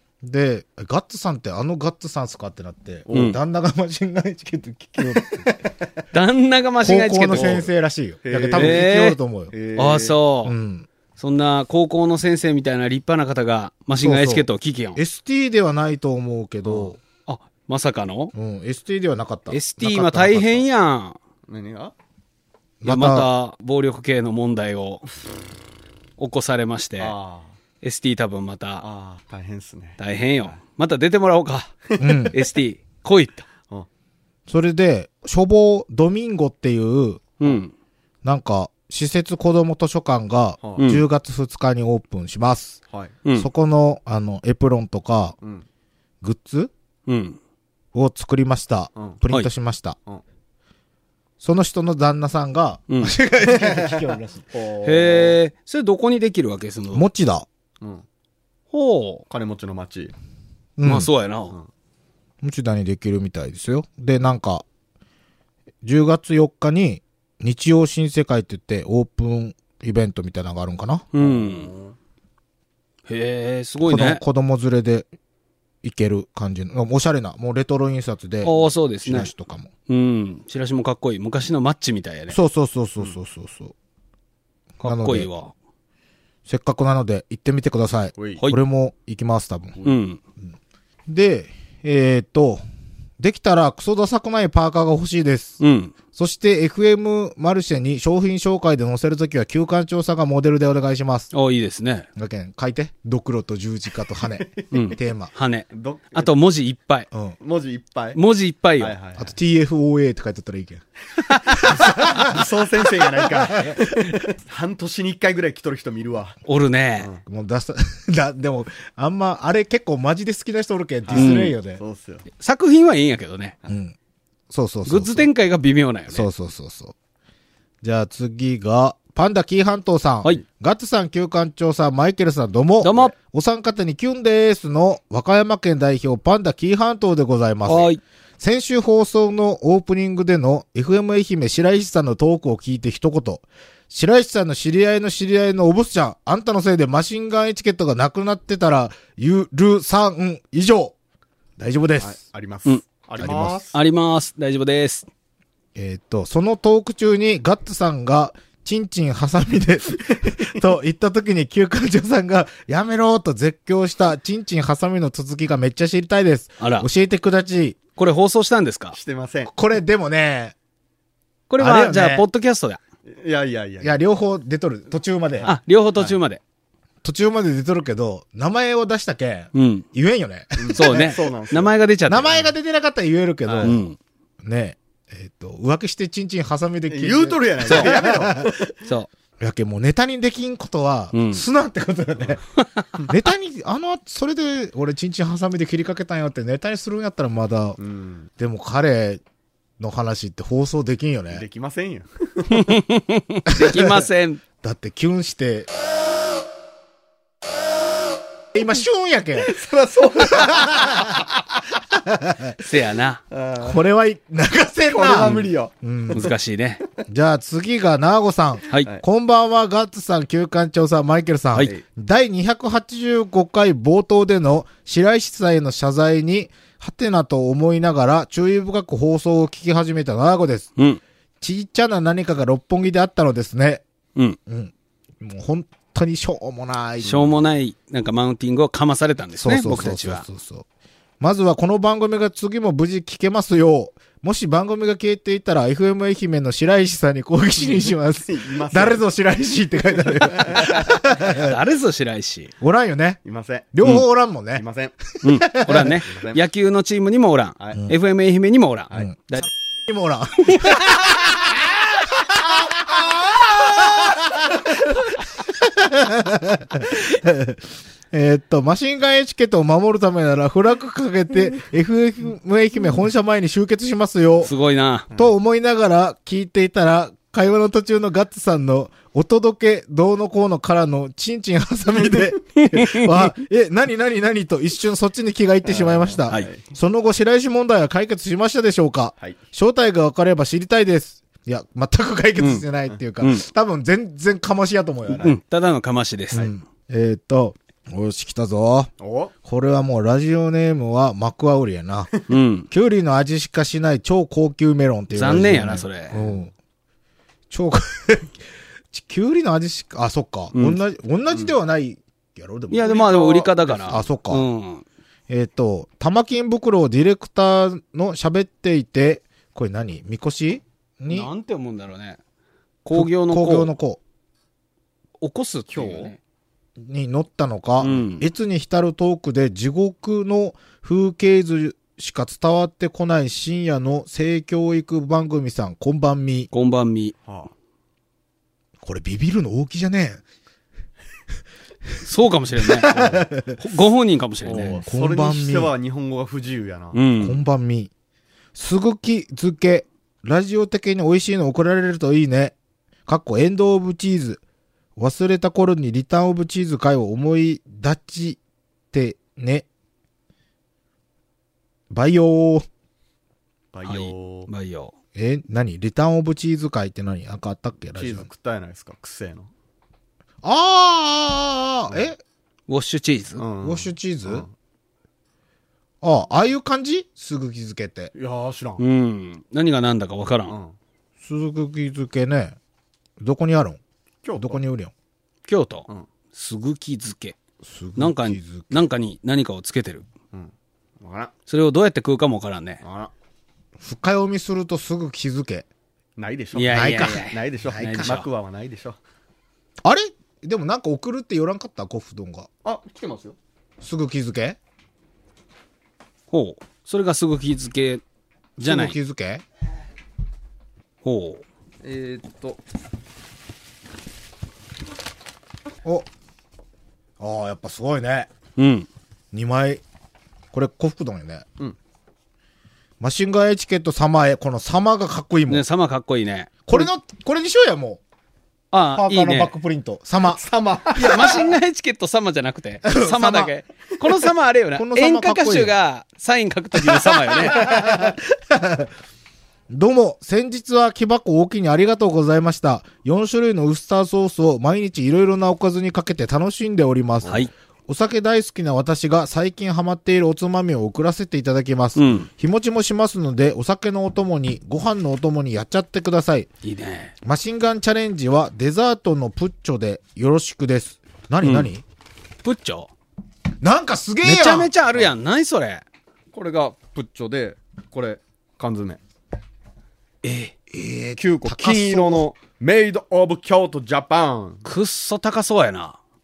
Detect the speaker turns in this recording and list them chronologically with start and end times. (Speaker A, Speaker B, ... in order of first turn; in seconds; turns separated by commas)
Speaker A: 0.2-5.7, Speaker B: 3.1-3.4, Speaker C: 3.1-3.4, Speaker B: 5.0-5.3, Speaker C: 6.1-7.6, Speaker A: 6.8-9.5, Speaker B: 7.3-7.7, Speaker B: 8.2-8.9, Speaker C: 8.6-9.2, Speaker B: 9.5-10.2, Speaker C: 9.8-10.6, Speaker A: 10.4-10.9, Speaker C: 11.2-15.0, Speaker A: 14.0-17.0, Speaker B: 16.6-16.9, Speaker C: 17.3-18.3, Speaker A: 18.3-20.6, Speaker C: 19.5-21.2, Speaker B: 21.5-21.9, Speaker A: 22.8-23.3, Speaker C: 22.9-25.0, Speaker C: 26.2-27.1, Speaker B: 27.0-27.5, Speaker C: 27.8-28.9, Speaker B: 28.8-30.5, Speaker C: 30.0-33.5, Speaker B: 32.0-32.4, Speaker A: 32.0-32.4, Speaker A: 34.5-37.3, Speaker C: 37.4-37.7, Speaker A: 38.2-42.8, Speaker B: 40.6-40.9, Speaker C: 40.8-41.0, Speaker B: 42.9-43.1, Speaker C: 43.2-43.5, Speaker A: 43.4-45.4, Speaker A: 46.2-46.7, Speaker C: 47.1-47.4, Speaker A: 47.9-50.0, Speaker A: 51.4-54.5, Speaker C: 52.9-53.1, Speaker B: 53.5-55.4, Speaker C: 54.8-57.0, Speaker A: 56.9-57.5, Speaker C: 58.7-59.2, Speaker B: 59.3-60.1, Speaker A: 60.8-61.1, Speaker C: 60.8-61.6, Speaker A: 62.4-64.7, Speaker A: 65.8-71.1, Speaker C: 71.1-71.7, Speaker B: 71.2-72.0, Speaker C: 73.1-74.2, Speaker A: 73.8-75.1, Speaker A: 75.8-79.7, Speaker C: 78.4-79.3, Speaker C: 79.9-82.4, Speaker A: 82.3-83.7, Speaker C: 84.8-85.5, Speaker A: 84.8-85.3, Speaker A: 86.5-89.8, Speaker B: 88.2-88.4, Speaker C: 89.8-90.2, Speaker A: 91.1-92.6, Speaker A: 93.2-95.6, Speaker C: 95.6-95.9, Speaker A: 96.1-101.3, Speaker C: 101.3-102.1, Speaker A: 102.2-105.3, Speaker B: 104.2-105.0, Speaker C: 104.7-107.1, Speaker B: 105.7-106.3, Speaker B: 107.4-108.2, Speaker C: 108.2-109.0, Speaker B: 108.8-109.3, Speaker A: 109.2-110.8, Speaker A: 111.5-112.4, Speaker B: 111.6-116.4, Speaker A: 113.2-113.8, Speaker C: 116.5-117.1, Speaker A: 117.3-121.8, Speaker B: 121.1-122.2, Speaker C: 121.2-121.5, Speaker C: 122.4-123.5, Speaker A: 123.7-124.0, Speaker A: 124.5-125.3, Speaker C: 124.9-126.3, Speaker A: 126.1-127.0, Speaker A: 127.8-150.9, Speaker C: 132.8-133.1, Speaker C: 137.7-138.0, Speaker A: 151.6-152.2, Speaker B: 152.0-153.8, Speaker A: 153.2-153.6, Speaker C: 153.7-155.1, Speaker A: 155.8-167.8, Speaker B: 160.0-160.6, Speaker C: 166.6-166.9, Speaker C: 168.0-169.0, Speaker B: 168.9-169.5, Speaker A: 169.5-170.6, Speaker C: 171.5-172.8, Speaker A: 171.6-172.3, Speaker B: 173.1-174.0, Speaker A: 173.8-175.5, Speaker B: 175.4-176.2, Speaker C: 175.4-176.4, Speaker A: 177.0-181.2, Speaker C: 179.5-179.9, Speaker B: 180.6-181.8, Speaker C: 180.7-182.4, Speaker A: 182.1-183.8, Speaker B: 183.5-183.8, Speaker C: 183.6-184.0, Speaker A: 184.4-188.5, Speaker B: 186.9-188.8, Speaker C: 187.7-187.9, Speaker C: 188.8-189.1, Speaker A: 189.4-192.4, Speaker C: 191.1-191.4, Speaker A: 193.1-197.8, Speaker B: 197.8-198.3, Speaker A: 198.4-199.2, Speaker A: 199.8-201.4, Speaker B: 201.3-202.7, Speaker C: 202.5-204.4, Speaker A: 203.5-204.1, Speaker A: 204.6-205.7, Speaker A: 208.6-209.5, Speaker B: 209.4-211.3, Speaker A: 210.4-211.2, Speaker A: 211.9-212.6, Speaker C: 212.6-213.2, Speaker B: 213.3-213.8, Speaker A: 213.6-216.2, Speaker B: 214.9-216.3, Speaker C: 216.1-216.8, Speaker A: 217.1-230.7, Speaker A: 231.4-233.8, Speaker A: 234.5-237.3, Speaker C: 237.0-240.2, Speaker A: 239.4-240.7, Speaker A: 241.2-251.6, Speaker B: 247.6-249.0, Speaker B: 250.0-250.9, Speaker C: 251.2-252.5, Speaker A: 252.6-253.2, Speaker B: 253.2-253.8, Speaker A: 253.7-254.7, Speaker B: 254.6-254.9, Speaker C: 255.2-259.5, Speaker A: 255.3-256.0, Speaker B: 255.8-256.4, Speaker B: 257.6-257.9, Speaker A: 259.9-274.5, Speaker C: 274.4-275.1, Speaker A: 275.1-295.3, Speaker B: 281.9-282.4, Speaker C: 282.6-283.1, Speaker B: 285.6-286.7, Speaker C: 292.4-292.6, Speaker C: 293.2-293.5, Speaker B: 295.1-295.4, Speaker C: 295.2-296.5, Speaker A: 296.3-298.9, Speaker B: 299.0-299.3, Speaker A: 299.4-302.1, Speaker C: 302.3-302.7, Speaker A: 302.7-306.5, Speaker C: 305.1-306.3, Speaker A: 307.5-308.3, Speaker A: 308.9-313.3, Speaker C: 310.5-310.8, Speaker C: 312.7-314.8, Speaker B: 312.8-314.0, Speaker A: 313.9-314.4, Speaker A: 315.3-321.3, Speaker C: 321.1-322.2, Speaker C: 322.8-323.7, Speaker A: 322.9-324.0, Speaker C: 325.2-326.2, Speaker B: 325.7-326.1, Speaker A: 326.8-336.5, Speaker C: 327.8-328.3, Speaker C: 336.5-337.1, Speaker B: 337.3-337.5, Speaker A: 338.8-340.2, Speaker C: 342.0-344.8, Speaker A: 342.6-343.6, Speaker B: 344.5-347.0, Speaker A: 344.8-345.7, Speaker C: 346.9-347.4, Speaker A: 347.2-347.9, Speaker A: 348.6-352.6, Speaker A: 353.1-354.4, Speaker A: 355.0-358.4, Speaker A: 358.9-359.7, Speaker A: 361.9-362.7, Speaker B: 363.7-364.5, Speaker C: 363.9-364.9, Speaker A: 365.1-368.3, Speaker B: 367.9-369.5, Speaker A: 370.4-372.2, Speaker C: 372.7-373.4, Speaker B: 373.4-374.5, Speaker A: 373.6-374.5, Speaker A: 376.0-378.1, Speaker B: 378.1-378.8, Speaker C: 378.8-380.6, Speaker B: 380.5-380.8, Speaker A: 381.2-382.6, Speaker A: 383.2-383.8, Speaker B: 384.2-384.6, Speaker A: 384.4-384.9, Speaker C: 385.5-387.4, Speaker A: 387.6-388.9, Speaker C: 388.0-390.1, Speaker B: 390.3-391.3, Speaker C: 391.5-392.8, Speaker B: 392.8-393.1, Speaker A: 393.8-395.7, Speaker B: 396.2-399.0, Speaker C: 396.6-398.3, Speaker A: 396.7-398.2, Speaker A: 399.8-402.5, Speaker B: 402.6-403.4, Speaker A: 403.8-404.6, Speaker C: 406.3-408.0, Speaker C: 408.6-409.0, Speaker A: 408.6-409.4, Speaker C: 411.0-411.4, Speaker B: 411.8-412.6, Speaker A: 417.2-418.3, Speaker C: 418.6-418.9, Speaker A: 419.3-419.8, Speaker A: 420.5-421.5, Speaker A: 423.0-425.6, Speaker C: 425.5-426.9, Speaker A: 426.7-428.0, Speaker C: 428.7-429.5, Speaker A: 428.9-430.4, Speaker B: 430.2-431.5, Speaker C: 431.0-438.1, Speaker A: 432.8-433.5, Speaker A: 434.8-435.8, Speaker A: 436.8-438.9, Speaker A: 439.7-456.5, Speaker C: 447.2-447.5, Speaker C: 452.0-452.3, Speaker C: 456.6-457.1, Speaker A: 457.2-461.8, Speaker C: 461.4-461.7, Speaker C: 462.4-462.9, Speaker A: 463.6-464.7, Speaker C: 464.2-465.8, Speaker B: 466.3-469.0, Speaker C: 470.2-470.5, Speaker A: 470.7-472.3, Speaker B: 471.2-474.6, Speaker C: 474.6-476.0